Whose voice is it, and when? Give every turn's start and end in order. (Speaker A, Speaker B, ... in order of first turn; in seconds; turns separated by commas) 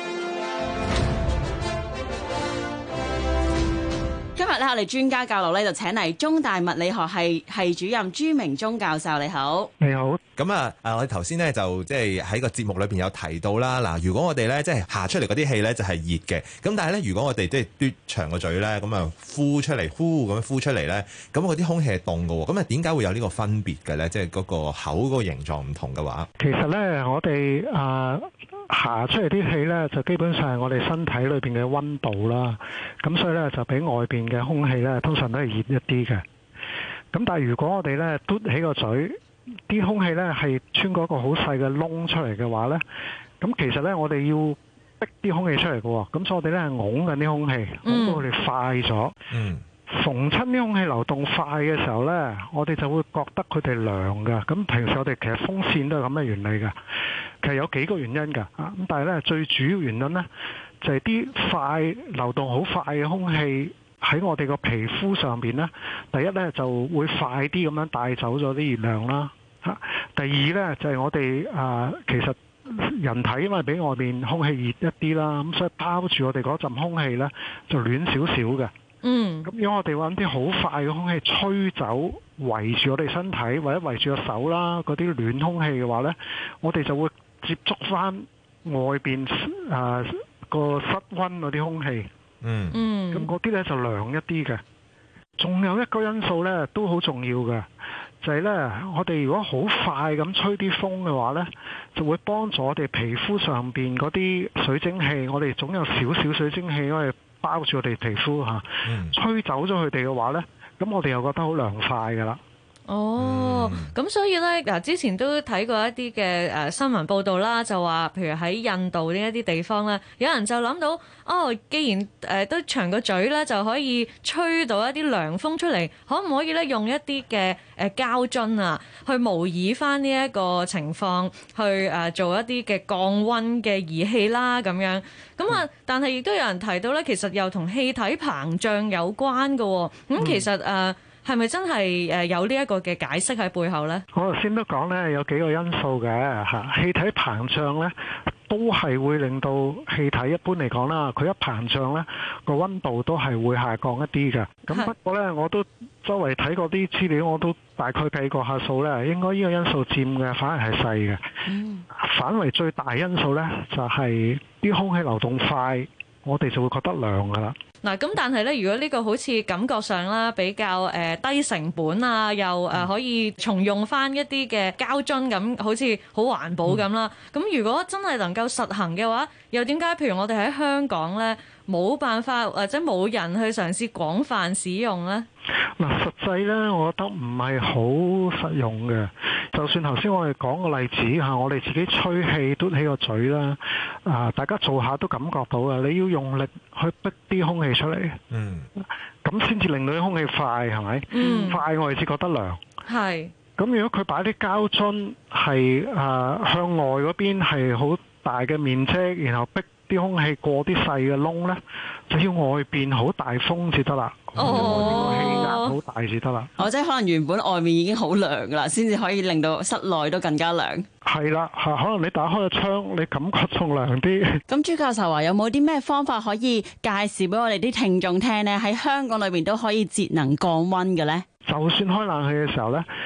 Speaker A: 4.4-9.7, Speaker B: 9.8-10.2, Speaker C: 10.4-26.3, Speaker B: 26.4-36.2, Speaker B: 37.1-39.2, Speaker B: 39.7-42.8, Speaker B: 43.4-49.2, Speaker D: 47.9-48.2, Speaker C: 49.3-49.6, Speaker B: 49.9-56.8, Speaker B: 57.4-60.3, Speaker B: 60.8-78.7, Speaker D: 79.0-79.5, Speaker B: 79.5-92.1, Speaker C: 92.4-92.8, Speaker D: 92.7-93.3, Speaker B: 93.1-94.6, Speaker B: 95.4-97.7, Speaker B: 98.2-112.4, Speaker C: 108.8-109.2, Speaker D: 112.9-144.0, Speaker C: 113.2-113.9, Speaker B: 144.1-147.9, Speaker B: 148.5-161.2, Speaker A: 161.5-161.8, Speaker B: 161.9-167.6, Speaker D: 167.8-185.3, Speaker B: 185.8-198.2, Speaker C: 198.3-198.7, Speaker B: 199.2-202.6, Speaker D: 201.1-201.6, Speaker D: 202.9-203.3, Speaker B: 203.6-216.5, Speaker C: 214.4-215.1, Speaker D: 214.4-215.8, Speaker A: 216.6-220.9, Speaker B: 221.1-224.4, Speaker A: 224.5-231.2, Speaker B: 231.5-232.9